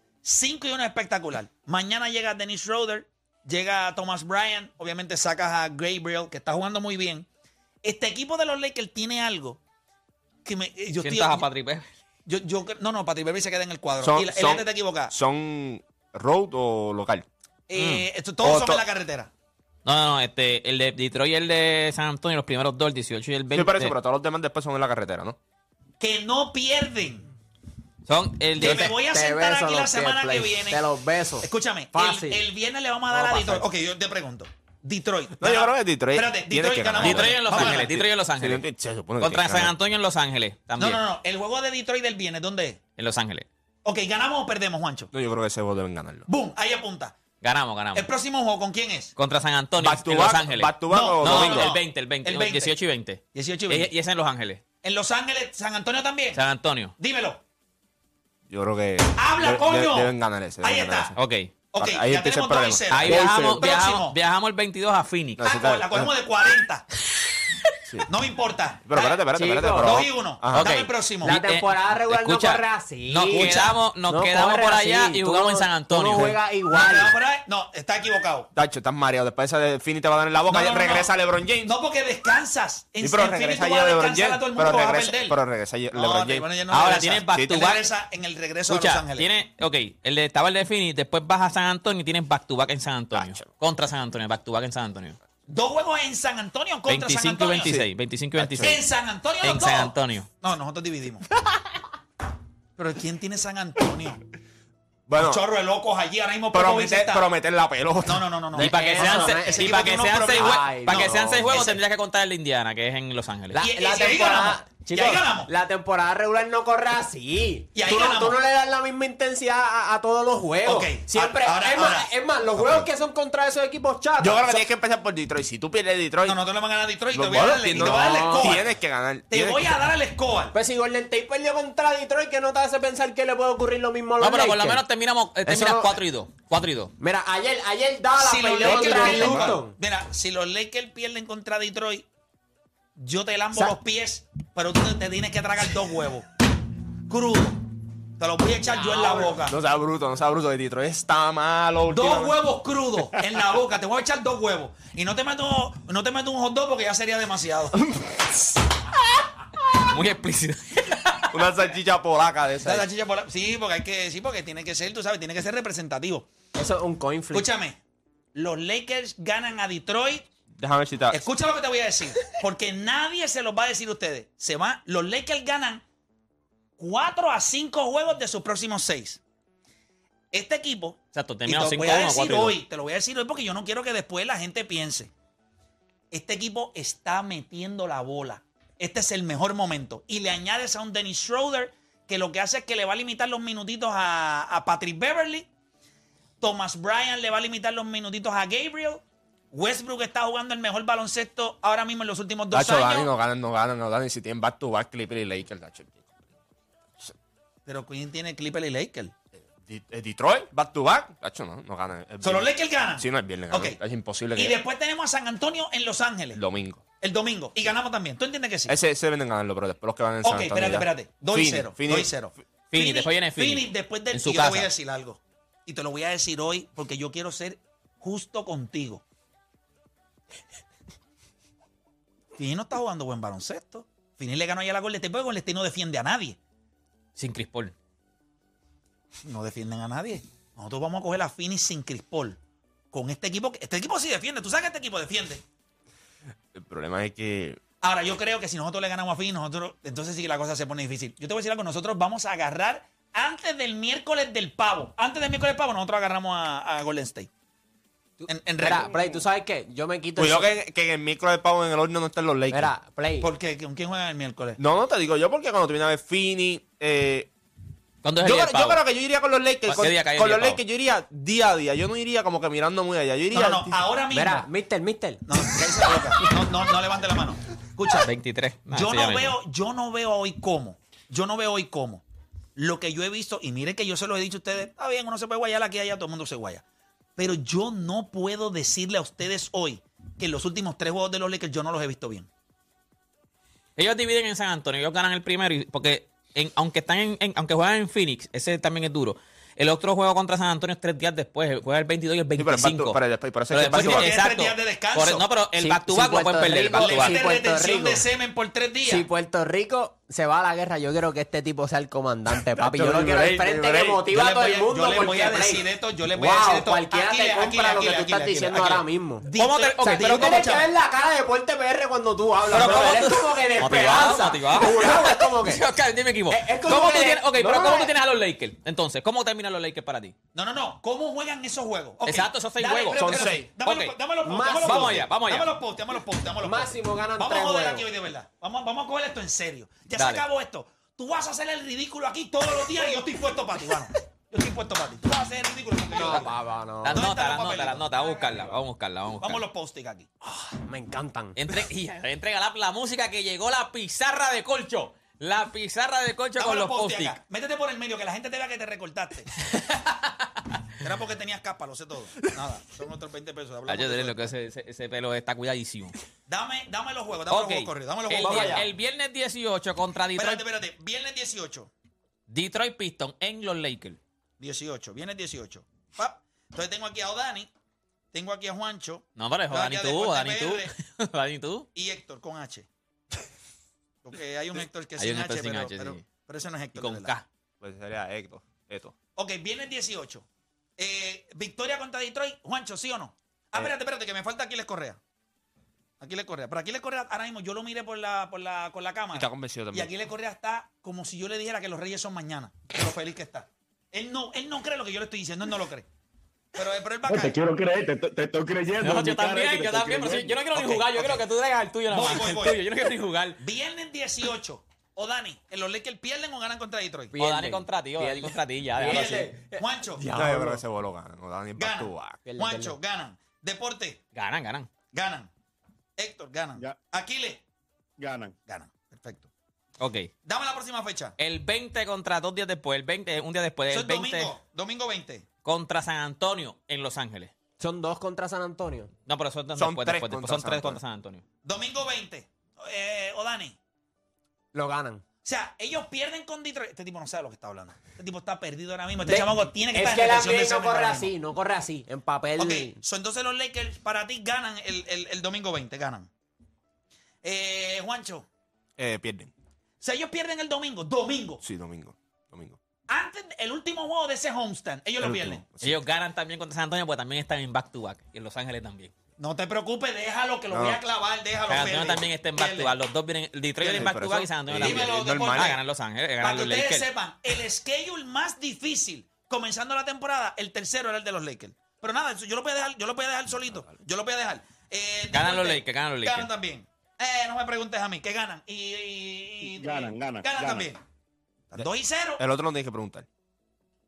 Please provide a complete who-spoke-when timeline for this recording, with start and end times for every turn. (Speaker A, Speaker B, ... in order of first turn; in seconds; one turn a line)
Speaker A: 0.2-7.3
Speaker A: 7.8-9.6
Speaker A: 10.4-11.5
Speaker B: 11.0-11.9
Speaker A: 12.3-15.1
Speaker C: 14.0-17.3
Speaker A: 17.7-19.3
Speaker B: 17.8-18.1
Speaker C: 18.4-18.8
Speaker B: 19.9-24.0
Speaker C: 23.5-25.4
Speaker A: 26.0-27.3
Speaker B: 28.1-28.9
Speaker A: 28.6-30.9
Speaker D: 28.6-32.5
Speaker A: 31.4-38.0
Speaker D: 33.1-33.6
Speaker C: 35.4-39.7
Speaker B: 37.0-38.6
Speaker B: 39.2-41.0
Speaker A: 40.8-42.8
Speaker B: 43.0-43.5
Speaker A: 43.9-45.1
Speaker C: 45.1-46.3
Speaker A: 46.3-47.1
Speaker B: 47.4-48.1
Speaker A: 48.0-49.1
Speaker B: 49.2-54.6
Speaker C: 49.8-51.8
Speaker A: 50.9-52.8
Speaker A: 53.3-53.9
Speaker A: 54.8-56.4
Speaker B: 56.3-56.9
Speaker A: 57.0-57.4
Speaker C: 58.5-61.2
Speaker A: 59.2-61.1
Speaker B: 61.2-61.5
Speaker A: 61.7-64.2
Speaker C: 61.8-63.1
Speaker B: 62.9-65.5
Speaker E: 63.1-63.6
Speaker C: 65.4-66.1
Speaker A: 65.4-66.9
Speaker A: 68.1-69.3
Speaker C: 68.9-70.7
Speaker D: 69.3-70.1
Speaker A: 69.8-71.4
Speaker B: 70.5-76.4
Speaker D: 71.2-77.2
Speaker A: 76.7-78.5
Speaker C: 78.5-81.7
Speaker A: 80.5-81.1
Speaker A: 81.6-85.4
Speaker C: 83.0-86.5
Speaker A: 85.9-89.3
Speaker B: 86.7-87.9
Speaker B: 88.7-95.2
Speaker C: 93.1-93.5
Speaker A: 95.5-97.8
Speaker B: 96.9-98.8
Speaker C: 98.4-98.8
Speaker A: 98.6-101.3
Speaker B: 99.4-100.3
Speaker A: 102.8-104.2
Speaker C: 105.1-105.4
Speaker A: 105.2-107.3
Speaker C: 106.5-108.3
Speaker A: 108.0-111.8
Speaker D: 108.5-109.8
Speaker B: 108.6-113.6
Speaker D: 110.3-111.7
Speaker D: 113.5-124.6
Speaker A: 113.6-115.5
Speaker A: 117.7-118.4
Speaker A: 120.6-122.1
Speaker C: 124.2-126.4
Speaker A: 126.2-128.7
Speaker C: 127.1-129.8
Speaker D: 127.8-128.6
Speaker A: 129.3-130.6
Speaker D: 130.5-134.8
Speaker B: 134.2-136.9
Speaker D: 135.5-136.0
Speaker D: 137.0-139.8
Speaker A: 138.2-142.1
Speaker C: 138.6-139.6
Speaker A: 143.0-146.3
Speaker A: 147.1-147.6
Speaker A: 148.2-149.6
Speaker D: 148.9-149.3
Speaker C: 149.2-152.3
Speaker A: 151.9-157.8
Speaker B: 159.8-161.4
Speaker C: 161.3-162.9
Speaker A: 162.6-166.3
Speaker D: 166.6-167.5
Speaker A: 167.3-167.8
Speaker A: 168.3-170.3
Speaker C: 170.6-171.2
Speaker A: 171.1-175.8
Speaker A: 176.8-179.2
Speaker A: 180.3-185.1
Speaker B: 181.1-182.6
Speaker A: 186.1-195.5
Speaker A: 196.4-203.1
Speaker C: 202.5-206.1
Speaker A: 207.7-209.1
Speaker C: 209.6-214.6
Speaker A: 212.2-213.8
Speaker A: 214.3-216.4
Speaker C: 216.3-216.8
Speaker A: 217.0-218.8
Speaker C: 218.7-222.1
Speaker A: 220.2-229.0
Speaker B: 222.7-224.7
Speaker A: 232.4-236.4
Speaker B: 237.2-237.8
Speaker A: 239.2-242.4
Speaker A: 242.9-245.4
Speaker C: 246.5-247.6
Speaker A: 247.8-257.3
Speaker D: 258.2-260.5
Speaker A: 258.3-258.9
Speaker C: 260.2-262.7
Speaker D: 262.5-263.3
Speaker A: 263.2-264.6
Speaker C: 264.6-267.3
Speaker B: 268.0-268.8
Speaker C: 268.2-273.8
Speaker B: 269.7-270.6
Speaker A: 273.3-274.5
Speaker D: 274.1-275.2
Speaker A: 275.3-278.1
Speaker B: 277.9-279.4
Speaker A: 278.7-282.0
Speaker A: 282.6-286.6
Speaker A: 287.2-292.3
Speaker B: 293.8-307.2
Speaker C: 302.4-304.1
Speaker A: 303.6-305.3
Speaker D: 305.6-308.0
Speaker A: 306.8-309.1
Speaker D: 308.9-319.3
Speaker C: 312.5-314.1
Speaker A: 314.1-320.7
Speaker B: 319.3-320.5
Speaker D: 319.8-325.6
Speaker B: 322.5-330.1
Speaker D: 326.3-327.9
Speaker A: 330.3-346.4
Speaker B: 332.1-334.0
Speaker C: 332.9-333.5
Speaker D: 334.2-335.1
Speaker B: 334.6-335.5
Speaker D: 336.4-337.9
Speaker B: 340.0-340.2
Speaker D: 345.9-347.1
Speaker B: 346.8-349.4
Speaker A: 346.9-348.6
Speaker A: 349.2-350.1
Speaker D: 350.5-351.4
Speaker B: 351.4-357.2
Speaker A: 356.4-359.4
Speaker B: 359.5-360.4
Speaker A: 360.8-364.3
Speaker B: 363.7-366.0
Speaker A: 366.3-368.6
Speaker B: 367.3-370.4
Speaker C: 368.2-368.6
Speaker A: 370.2-371.7
Speaker B: 372.3-374.0
Speaker A: 374.4-377.5
Speaker A: 378.1-380.7
Speaker B: 379.2-381.7
Speaker A: 381.8-382.7
Speaker A: 384.0-387.1
Speaker B: 385.0-386.1
Speaker B: 386.8-387.3
Speaker C: 387.6-388.9
Speaker A: 389.2-390.2
Speaker A: 390.8-395.0
Speaker A: 396.0-405.9
Speaker C: 399.1-399.9
Speaker A: 406.6-407.4
Speaker E: 407.1-410.5
Speaker B: 408.8-413.4
Speaker A: 410.7-411.2
Speaker A: 411.9-412.6
Speaker A: 413.4-417.1
Speaker D: 417.1-420.6
Speaker B: 417.2-419.3
Speaker A: 418.8-420.1
Speaker C: 420.1-422.2
Speaker A: 421.6-424.0
Speaker D: 422.2-422.8
Speaker B: 424.1-424.7
Speaker A: 424.9-425.3
Speaker A: 426.0-427.4
Speaker E: 428.0-428.4
Speaker A: 428.5-429.3
Speaker B: 429.8-430.1
Speaker A: 430.2-431.2
Speaker B: 431.2-434.4
Speaker A: 433.7-435.3
Speaker B: 435.4-437.3
Speaker D: 437.6-438.9
Speaker B: 439.1-441.2
Speaker C: 439.6-440.8
Speaker A: 441.4-443.6
Speaker D: 444.5-445.0
Speaker A: 445.2-451.1
Speaker D: 449.1-452.8
Speaker A: 452.4-456.1
Speaker A: 457.2-458.3
Speaker C: 458.8-459.3
Speaker A: 459.8-461.4
Speaker C: 461.4-462.6
Speaker A: 462.9-465.4
Speaker C: 465.0-465.8
Speaker B: 465.6-468.9
Speaker A: 469.2-472.8
Speaker C: 470.5-470.8
Speaker B: 471.5-476.9
Speaker C: 473.6-475.6
Speaker A: 473.6-473.9
Speaker A: 474.5-475.6
Speaker A: 476.2-490.8
Speaker B: 485.1-486.3
Speaker E: 489.5-490.7
Speaker A: 491.5-492.2
Speaker C: 492.2-493.1